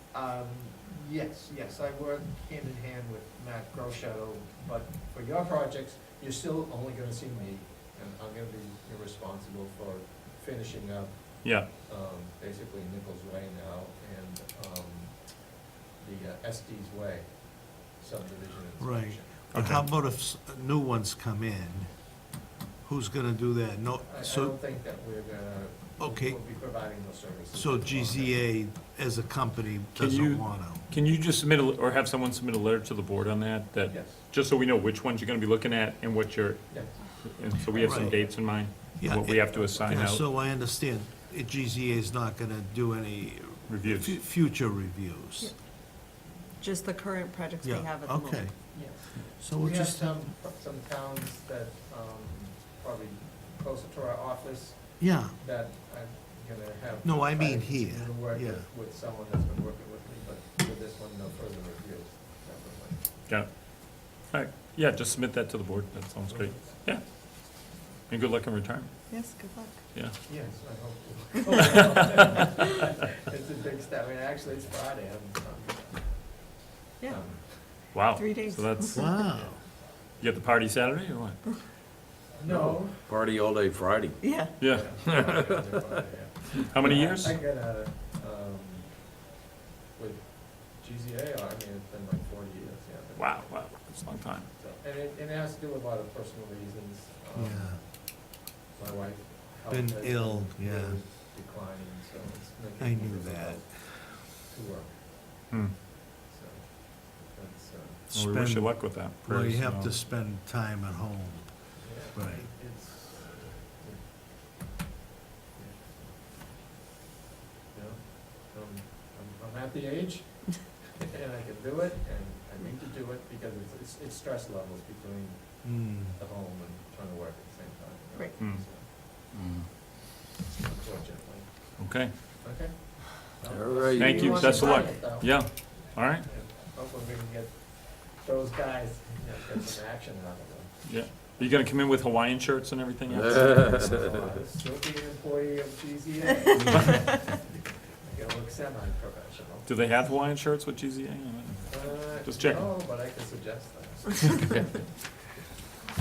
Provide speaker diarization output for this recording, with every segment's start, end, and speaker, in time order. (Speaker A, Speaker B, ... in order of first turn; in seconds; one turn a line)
Speaker A: 0.1-15.2
Speaker B: 11.4-11.7
Speaker A: 16.0-19.4
Speaker C: 18.8-21.9
Speaker B: 19.5-19.9
Speaker C: 22.9-24.6
Speaker A: 24.0-28.4
Speaker C: 26.0-26.4
Speaker C: 27.5-30.8
Speaker B: 30.0-40.2
Speaker A: 33.9-34.2
Speaker C: 37.8-38.2
Speaker C: 39.0-45.5
Speaker A: 39.6-39.8
Speaker B: 43.7-44.2
Speaker D: 46.6-48.5
Speaker C: 47.6-48.7
Speaker A: 48.7-63.0
Speaker C: 49.4-50.2
Speaker C: 55.0-55.3
Speaker C: 57.0-58.7
Speaker B: 64.0-67.0
Speaker B: 68.1-68.9
Speaker D: 69.1-69.8
Speaker A: 70.3-76.2
Speaker B: 71.7-72.2
Speaker A: 77.1-77.4
Speaker D: 77.8-79.2
Speaker B: 77.9-78.9
Speaker C: 78.9-79.6
Speaker A: 79.3-79.5
Speaker B: 80.2-81.4
Speaker A: 82.4-83.0
Speaker E: 82.5-84.2
Speaker D: 84.2-84.5
Speaker B: 84.6-84.9
Speaker A: 84.6-88.9
Speaker E: 84.9-86.0
Speaker B: 86.6-87.4
Speaker A: 90.0-93.5
Speaker B: 93.2-94.5
Speaker A: 94.5-97.9
Speaker C: 97.3-97.8
Speaker A: 98.8-104.9
Speaker C: 99.7-101.0
Speaker C: 102.8-103.7
Speaker B: 105.5-105.8
Speaker A: 106.3-108.0
Speaker C: 108.1-111.5
Speaker B: 108.1-109.9
Speaker A: 111.8-114.0
Speaker C: 112.1-112.5
Speaker A: 115.6-116.1
Speaker A: 117.7-128.8
Speaker C: 125.6-126.1
Speaker B: 128.4-128.6
Speaker E: 129.3-129.7
Speaker A: 130.5-131.5
Speaker B: 131.8-132.1
Speaker A: 132.4-135.3
Speaker E: 133.5-134.6
Speaker B: 134.0-136.3
Speaker D: 134.2-135.0
Speaker A: 136.3-140.7
Speaker B: 140.9-143.8
Speaker E: 143.1-144.4
Speaker A: 143.2-147.4
Speaker B: 146.7-147.0
Speaker A: 147.9-149.7
Speaker B: 149.7-152.7
Speaker A: 151.7-154.8